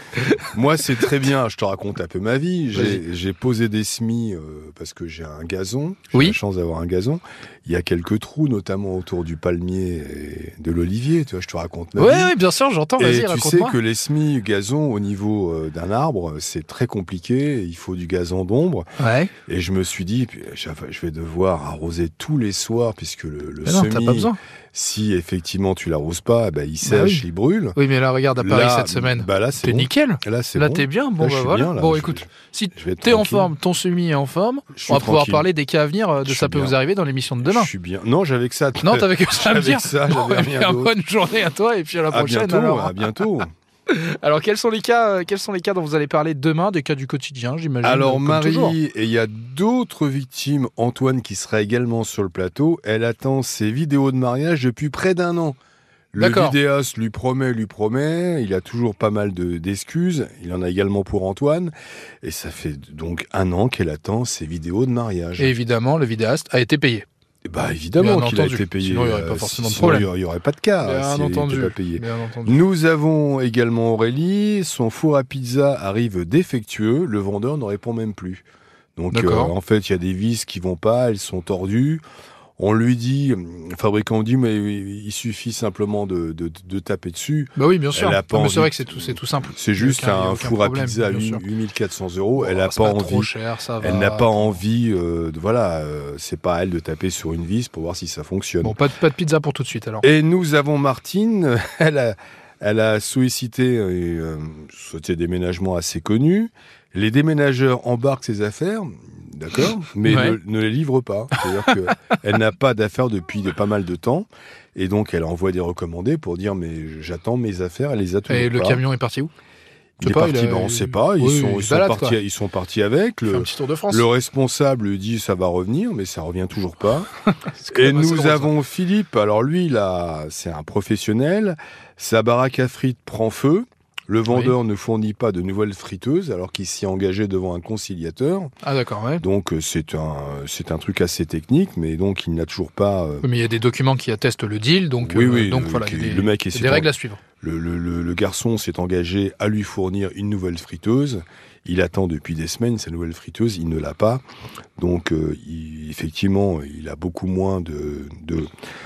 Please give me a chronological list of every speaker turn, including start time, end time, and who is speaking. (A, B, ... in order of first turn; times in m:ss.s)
0:00.4-0:12.4 A
0:02.7-0:03.0 B
0:12.0-0:13.8 B
0:13.0-0:18.9 A
0:19.0-0:19.3 B
0:19.5-0:27.8 A
0:23.6-0:24.4 B
0:26.8-0:27.2 B
0:27.8-0:37.7 B
0:28.4-0:33.5 A
0:34.7-0:35.5 A
0:36.2-0:36.8 A
0:37.4-0:40.9 A
0:38.8-0:43.1 B
0:42.1-0:43.5 A
0:43.9-0:48.8 B
0:47.8-0:55.6 A
0:56.1-1:05.5 A
0:56.2-0:56.6 B
1:05.4-1:07.1 B
1:07.5-1:18.4 A
1:08.0-1:10.1 B
1:10.8-1:12.6 B
1:19.0-1:22.0 A
1:19.1-1:19.5 B
1:22.6-1:38.8 A
1:27.6-1:31.4 B
1:32.4-1:34.6 B
1:38.6-1:40.0 B
1:40.0-1:58.8 A
1:50.0-1:50.4 B
1:58.3-1:59.3 B
2:00.0-2:07.1 A
2:00.0-2:02.2 B
2:03.3-2:04.1 B
2:07.4-2:08.5 B
2:07.7-2:18.5 A
2:14.3-2:14.6 B
2:18.6-2:19.2 B
2:19.2-2:23.3 A
2:23.2-2:27.2 B
2:25.0-2:26.9 A
2:27.4-2:34.2 A
2:34.8-2:38.5 A